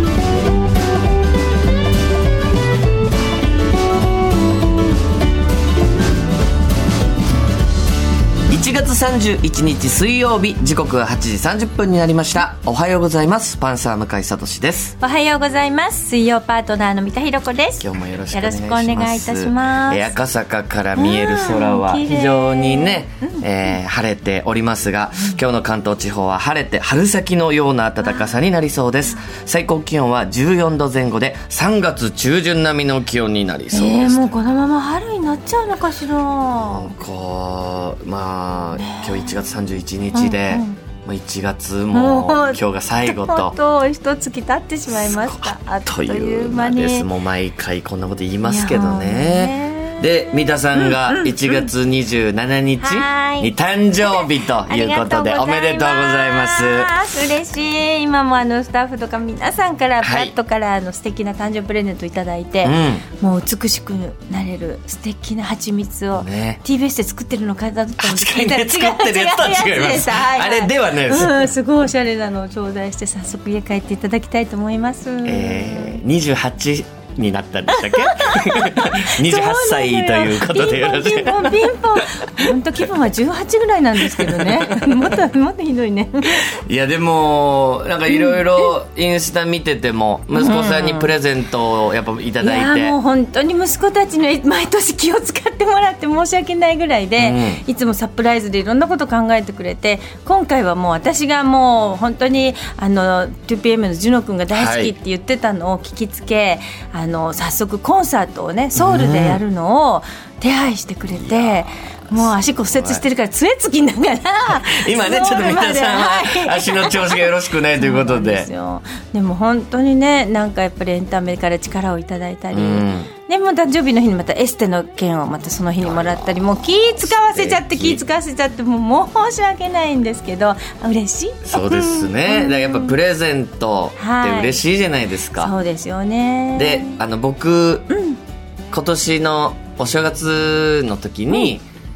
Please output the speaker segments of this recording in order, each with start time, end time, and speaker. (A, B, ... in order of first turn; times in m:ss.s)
0:08.5-0:14.9 A
0:15.0-0:20.1 B
0:17.8-0:34.3 A
0:21.0-0:23.5 B
0:33.7-0:36.9 B
0:36.6-0:43.6 A
0:38.8-0:39.4 B
0:40.1-0:40.8 B
0:41.9-0:47.1 B
0:44.9-0:56.9 A
0:48.4-0:51.7 B
0:52.8-1:16.0 B
1:00.0-1:00.3 A
1:02.6-1:03.0 A
1:06.1-1:06.6 A
1:08.0-1:11.4 A
1:15.2-1:21.8 A
1:17.8-1:26.5 B
1:24.0-1:25.0 A
1:26.5-1:33.0 A
1:28.1-1:28.7 B
1:30.3-1:31.1 B
1:32.4-2:12.9 B
1:37.2-1:37.6 A
1:44.5-1:44.9 A
1:48.8-1:49.4 A
1:51.1-1:53.0 A
1:54.6-1:58.5 A
2:02.5-2:03.1 A
2:05.8-2:08.0 A
2:11.4-2:15.5 A
2:14.0-2:14.6 B
2:15.4-2:17.0 B
2:16.5-2:17.9 A
2:17.9-2:18.2 B
2:18.7-2:21.6 A